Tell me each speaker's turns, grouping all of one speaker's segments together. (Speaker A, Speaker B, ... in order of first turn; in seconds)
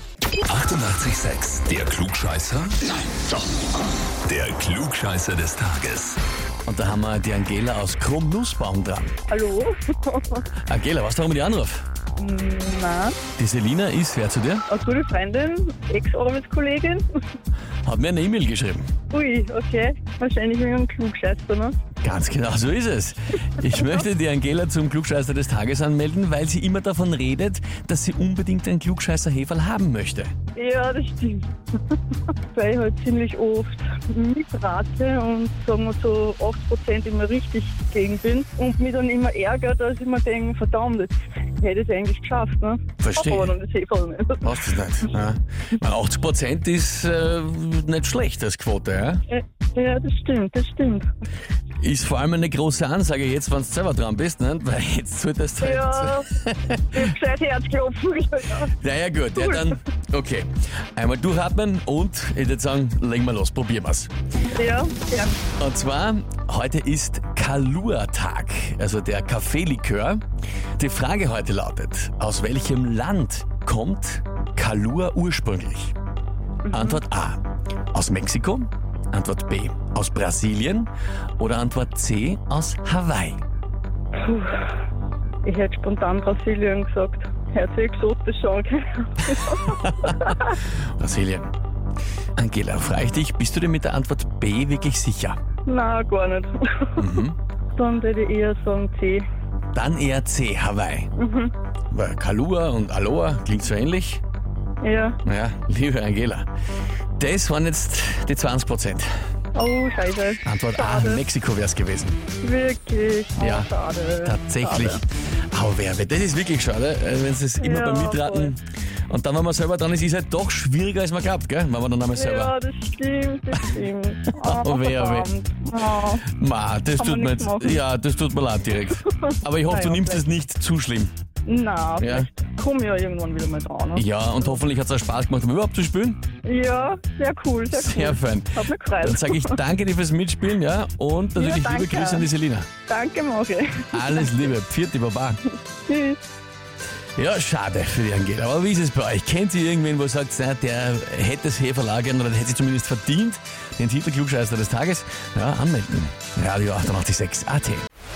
Speaker A: 0.4-2.9, 4.2-6.2
Speaker B: 6.7-9.1, 10.7-11.8, 13.3-14.6, 17.8-18.9, 22.0-30.3, 43.0-43.5, 44.4-49.2, 51.8-57.0, 58.8-64.1, 65.6-70.2, 70.8-75.9, 76.7-77.4, 77.9-83.4, 89.6-91.5, 92.4-95.4, 97.0-97.3, 99.7-101.1, 101.9-104.2, 105.2-106.5, 107.2-109.1, 110.4-112.2, 113.4-113.7, 114.2-122.5, 124.4-125.3, 126.2-131.1, 132.0-132.3, 133.9-136.2, 137.7-142.7, 143.9-145.4, 147.2-157.8
Speaker C: 9.3-10.4, 12.2-13.2, 14.7-17.0, 19.1-21.8, 30.5-31.9, 32.5-44.5, 49.3-51.0, 55.6-56.3, 56.9-58.7, 59.4-59.8, 64.5-65.4, 76.7-77.0, 84.2-84.7, 85.4-90.6, 95.7-97.0, 97.7-99.2, 101.2-101.5, 104.8-105.2, 109.5-111.2, 112.4-115.0, 117.6-118.5, 122.1-126.2, 127.0-127.8, 129.1-130.2, 131.4-134.6, 136.4-139.6, 141.3-142.3, 142.9-144.4, 145.8-146.2